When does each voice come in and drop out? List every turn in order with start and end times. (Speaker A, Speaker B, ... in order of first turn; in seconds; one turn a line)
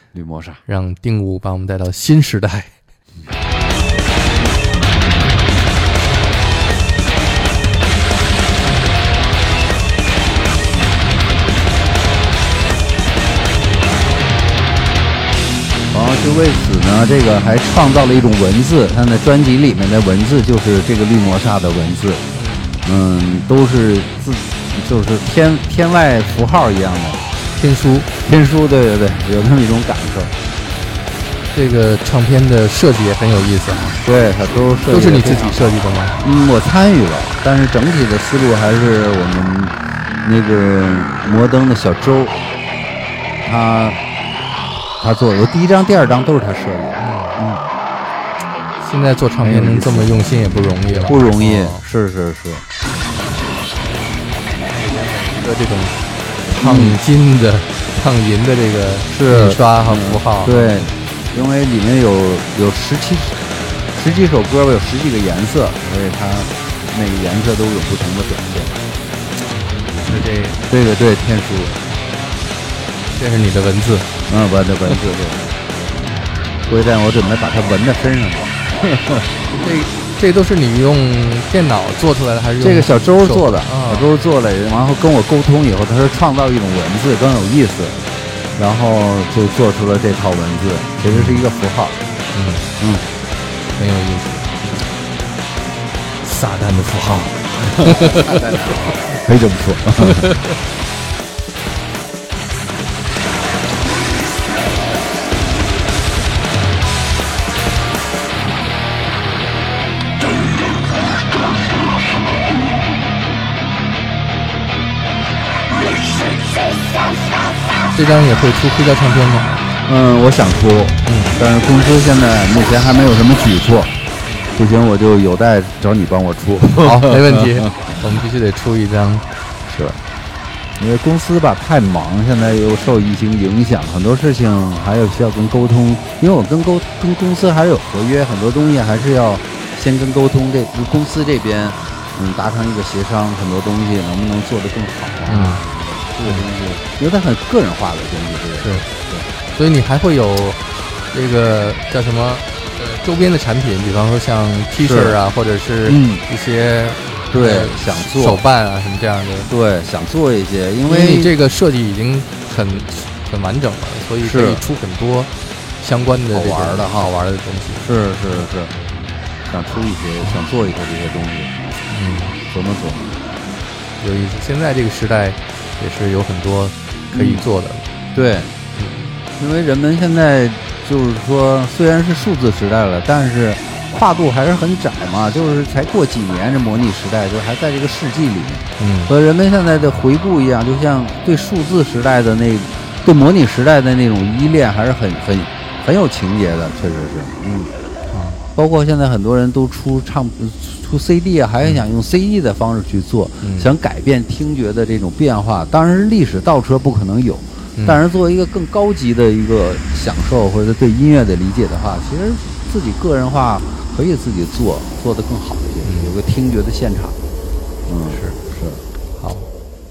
Speaker A: 0.1-0.6
Speaker B: 0.7-2.8
Speaker A: 15.9-22.2
Speaker B: 22.3-22.7
Speaker A: 22.8-27.2
Speaker B: 27.5-28.1
Speaker A: 28.2-30.4
Speaker B: 31.5-34.0
Speaker A: 34.0-42.4
Speaker B: 34.9-36.2
Speaker A: 43.4-44.0
Speaker A: 45.0-47.6
Speaker B: 47.0-47.4
Speaker B: 48.8-51.9
Speaker A: 49.4-52.7
Speaker B: 54.7-60.9
Speaker A: 56.6-57.0
Speaker A: 59.1-63.4
Speaker A: 63.9-68.8
Speaker B: 69.7-70.6
Speaker A: 70.7-71.8
Speaker B: 73.1-74.1
Speaker A: 74.3-75.5
Speaker A: 76.7-79.3
Speaker B: 79.5-84.1
Speaker A: 82.6-88.0
Speaker A: 88.6-92.0
Speaker B: 91.0-91.4
Speaker B: 92.3-92.7
Speaker A: 92.8-93.0
Speaker B: 93.8-94.8
Speaker B: 96.2-98.9
Speaker A: 97.6-100.4
Speaker B: 100.0-100.6
Speaker B: 117.9-119.6
Speaker A: 119.9-123.9
Speaker B: 121.0-121.4
Speaker A: 124.5-127.9
Speaker B: 126.8-129.3
Speaker A: 129.7-130.0
Speaker A: 130.8-149.3
Speaker B: 145.3-145.7
Speaker B: 148.6-148.9
Speaker B: 149.6-159.5
Speaker A: 154.8-155.2
Speaker A: 155.9-156.2
Speaker A: 157.3-158.4
Speaker A: 159.5-161.3
Speaker B: 160.9-167.9
Speaker A: 164.2-164.6
Speaker A: 166.3-167.1
Speaker A: 167.8-168.8
Speaker A: 169.5-171.6
Speaker B: 171.9-172.4
Speaker A: 172.4-173.2
Speaker B: 174.0-177.9
Speaker A: 177.1-177.4
Speaker A: 178.1-178.6
Speaker B: 178.8-179.1
Speaker A: 179.3-197.7
Speaker B: 188.8-189.1
Speaker B: 198.1-198.4
Speaker A: 198.6-217.2
Speaker B: 203.4-203.7
Speaker B: 215.8-216.1
Speaker A: 217.9-218.8
Speaker B: 218.1-218.4
Speaker B: 219.2-219.5